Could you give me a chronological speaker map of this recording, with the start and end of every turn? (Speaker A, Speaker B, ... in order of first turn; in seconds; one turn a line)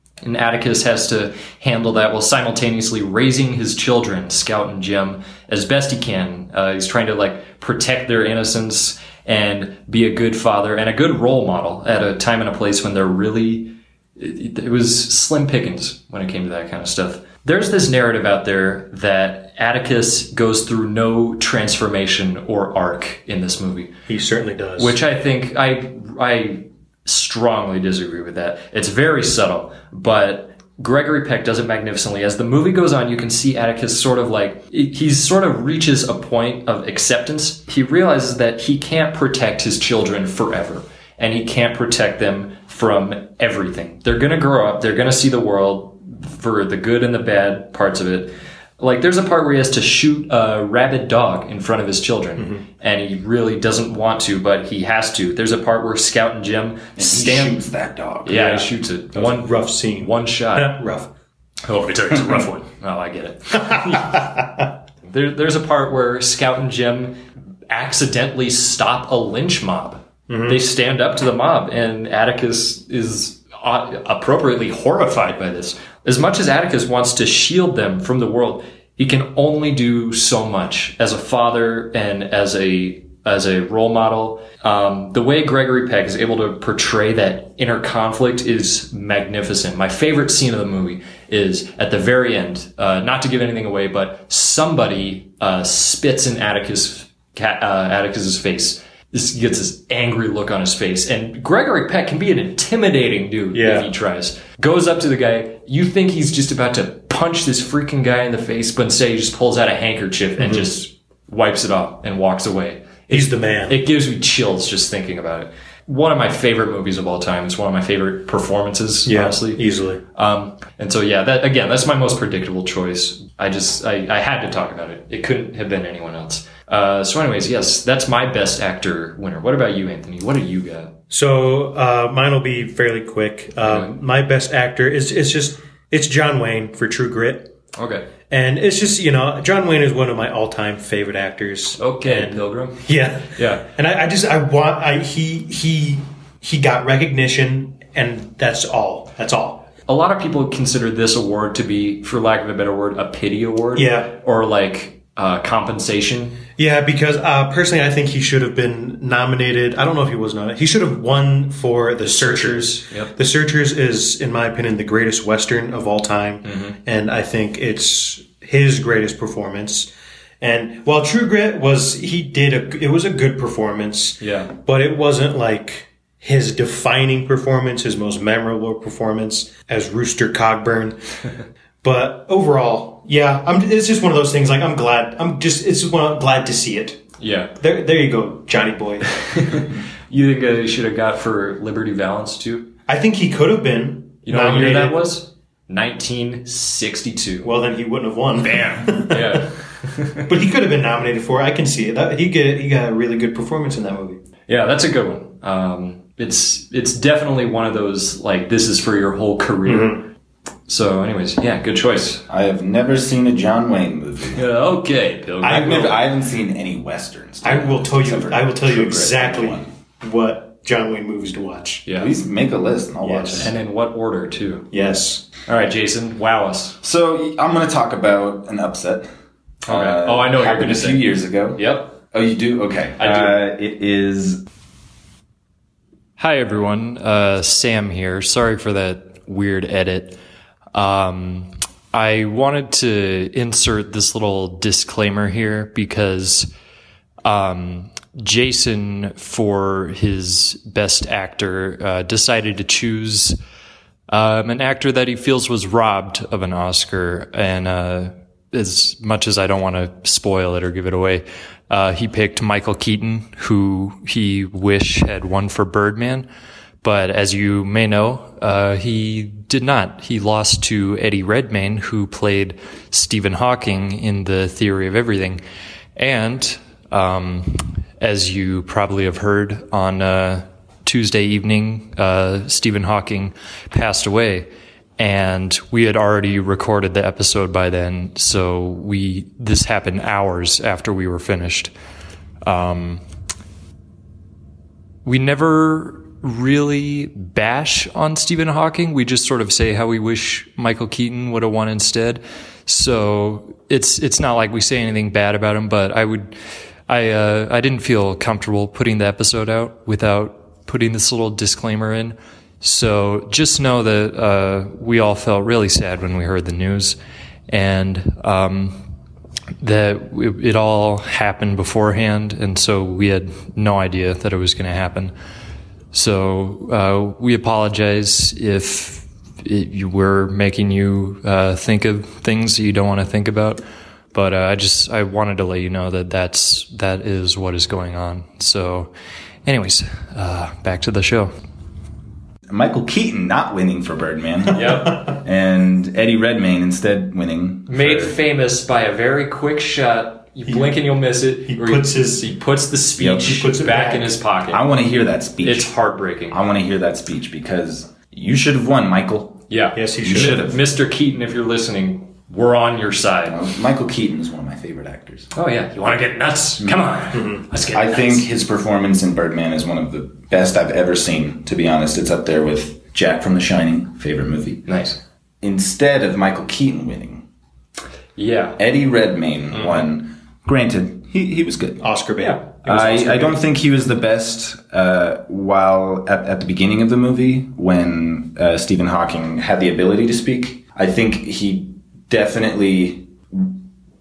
Speaker A: 0.2-23.9
Speaker B: 24.1-25.0
Speaker A: 24.8-57.6
Speaker C: 57.0-58.5
Speaker A: 58.2-60.8
Speaker B: 58.3-61.1
Speaker A: 61.6-64.4
Speaker A: 65.1-119.6
Speaker B: 70.3-70.6
Speaker B: 103.5-103.9
Speaker B: 110.4-110.7
Speaker B: 113.1-113.8
Speaker B: 119.0-120.0
Speaker A: 120.1-130.9
Speaker B: 131.1-137.5
Speaker A: 133.6-133.9
Speaker A: 137.8-138.1
Speaker B: 138.3-149.7
Speaker A: 141.8-143.6
Speaker A: 149.9-156.4
Speaker B: 153.7-154.1
Speaker B: 156.6-169.9
Speaker A: 162.0-163.1
Speaker A: 166.4-166.8
Speaker B: 170.4-181.0
Speaker A: 174.2-174.5
Speaker B: 181.8-187.0
Speaker A: 187.2-187.5
Speaker B: 187.6-189.2
Speaker A: 189.2-192.7
Speaker B: 192.9-195.1
Speaker A: 194.2-197.5
Speaker B: 197.4-199.4
Speaker A: 198.4-200.3
Speaker B: 200.2-204.2
Speaker A: 204.5-210.0
Speaker B: 209.6-210.0
Speaker A: 210.7-212.2
Speaker C: 212.3-214.4
Speaker A: 214.3-216.0
Speaker B: 215.4-215.9
Speaker C: 215.4-219.7
Speaker B: 217.4-221.9
Speaker A: 221.9-222.1
Speaker C: 221.9-223.5
Speaker B: 223.0-223.5
Speaker A: 223.3-224.7
Speaker B: 224.7-225.2
Speaker A: 225.4-226.8
Speaker C: 226.8-229.1
Speaker A: 229.6-231.9
Speaker C: 229.7-234.4
Speaker A: 233.0-233.4
Speaker A: 236.2-240.2
Speaker A: 240.7-246.5
Speaker A: 247.2-253.4
Speaker A: 254.1-266.3
Speaker A: 266.8-275.4
Speaker A: 275.9-291.7
Speaker A: 292.4-293.0
Speaker A: 295.0-306.4
Speaker A: 306.9-317.0
Speaker A: 317.5-318.8
Speaker A: 319.6-325.1
Speaker A: 325.9-333.6
Speaker A: 334.1-338.9
Speaker A: 339.4-341.3
Speaker C: 342.5-348.1
Speaker A: 344.5-345.1
Speaker B: 344.6-344.9
Speaker A: 347.7-354.6
Speaker B: 350.5-350.7
Speaker B: 351.5-352.3
Speaker C: 353.0-353.5
Speaker B: 353.1-354.1
Speaker C: 354.5-355.7
Speaker A: 355.4-356.4
Speaker C: 356.3-359.4
Speaker A: 359.5-363.4
Speaker B: 359.7-360.4
Speaker C: 360.0-360.6
Speaker C: 363.3-365.3
Speaker A: 365.3-368.2
Speaker C: 366.6-366.9
Speaker B: 367.1-367.4
Speaker C: 367.7-374.6
Speaker A: 374.7-375.0
Speaker C: 375.4-377.2
Speaker A: 378.2-378.6
Speaker C: 378.6-381.8
Speaker A: 379.5-379.8
Speaker B: 381.8-383.4
Speaker A: 382.2-382.4
Speaker C: 382.6-393.5